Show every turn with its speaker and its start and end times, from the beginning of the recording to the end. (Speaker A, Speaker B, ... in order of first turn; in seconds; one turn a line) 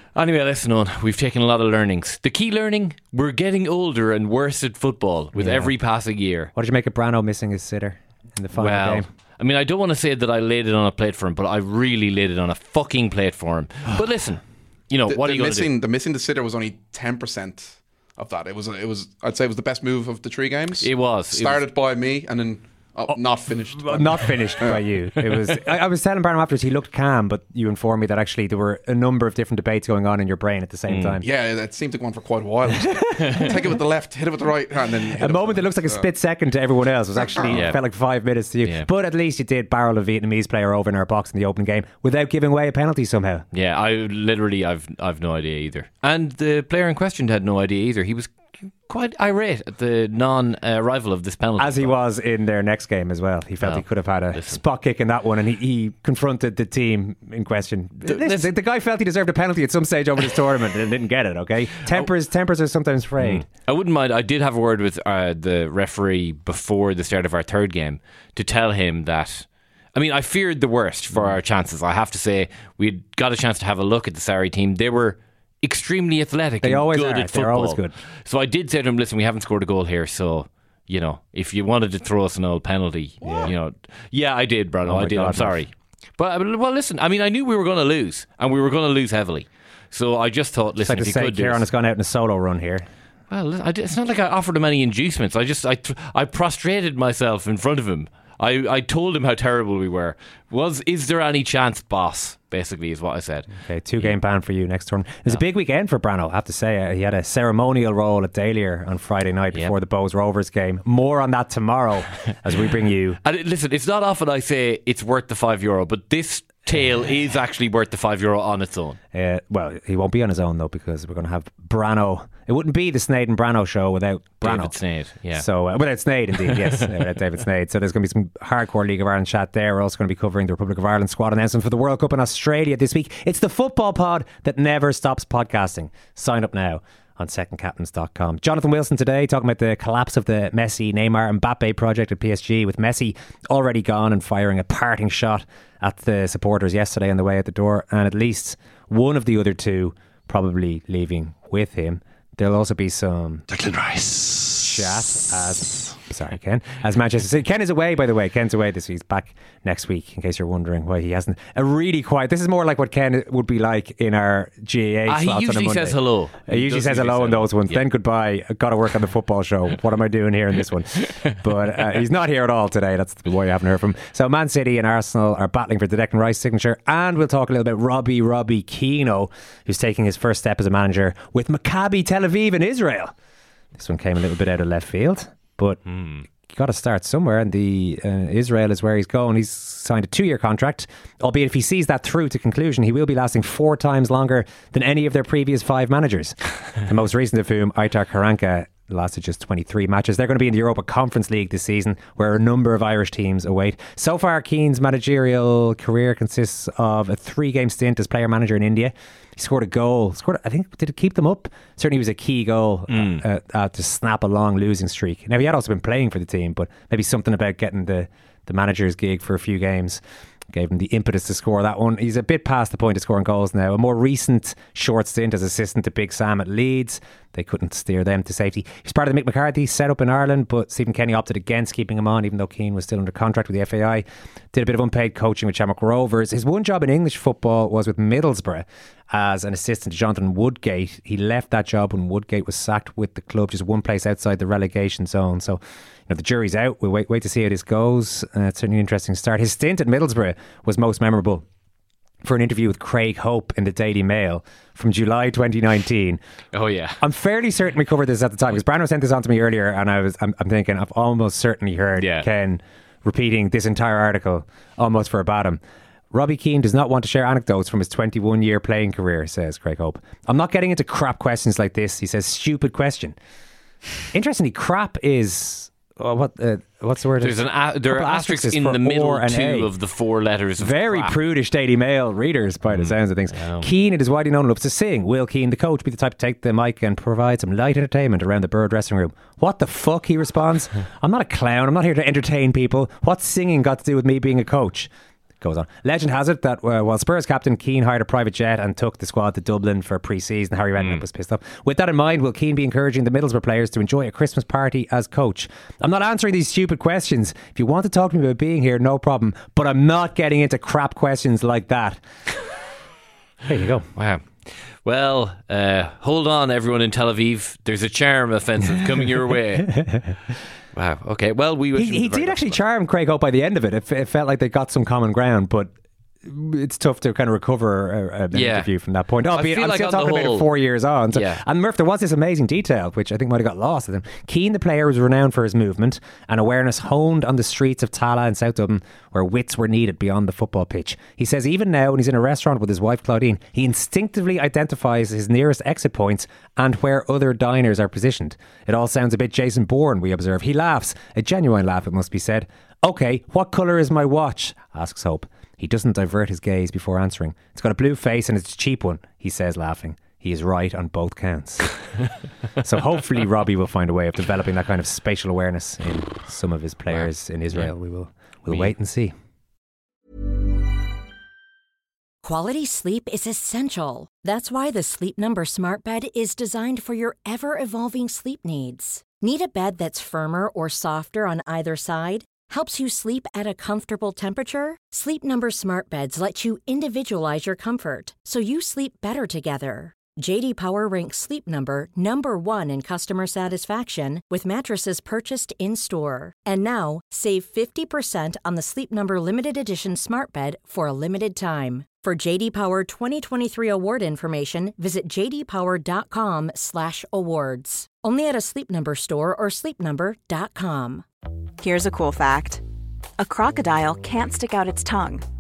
Speaker A: 0.1-6.5
Speaker B: 5.3-5.7
Speaker B: 6.5-9.1
Speaker A: 8.6-15.7
Speaker C: 15.1-25.4
Speaker A: 20.8-21.7
Speaker B: 23.1-31.3
Speaker A: 30.9-31.2
Speaker C: 31.2-36.1
Speaker A: 33.2-33.5
Speaker B: 35.1-43.5
Speaker A: 37.4-37.8
Speaker A: 43.5-52.0
Speaker B: 51.6-63.5
Speaker A: 53.6-54.6
Speaker A: 58.0-58.5
Speaker A: 63.2-91.7
Speaker B: 76.6-78.0
Speaker B: 83.2-83.5
Speaker B: 84.8-85.6
Speaker B: 90.8-92.9
Speaker A: 93.3-104.2
Speaker B: 103.6-113.2
Speaker A: 113.2-119.0
Speaker B: 119.1-124.8
Speaker A: 124.4-125.5
Speaker B: 125.3-153.5
Speaker A: 126.5-126.9
Speaker B: 154.6-183.1
Speaker A: 165.1-167.8
Speaker B: 183.8-251.4
Speaker A: 185.9-186.2
Speaker A: 212.9-213.2
Speaker B: 252.2-256.2
Speaker A: 256.5-257.0
Speaker B: 257.0-265.6
Speaker A: 262.0-262.3
Speaker B: 266.1-273.2
Speaker B: 274.1-279.7
Speaker A: 277.2-281.2
Speaker B: 280.6-294.9
Speaker A: 282.7-283.7
Speaker B: 295.4-312.0
Speaker B: 313.5-313.9
Speaker A: 313.9-319.7
Speaker B: 319.6-320.1
Speaker A: 320.7-322.6
Speaker B: 321.8-325.7
Speaker B: 326.2-361.7
Speaker A: 328.3-328.7
Speaker A: 329.3-330.5
Speaker A: 331.1-331.4
Speaker B: 362.6-369.1
Speaker A: 366.9-367.7
Speaker D: 372.2-411.0
Speaker E: 411.6-412.6
Speaker E: 413.2-415.2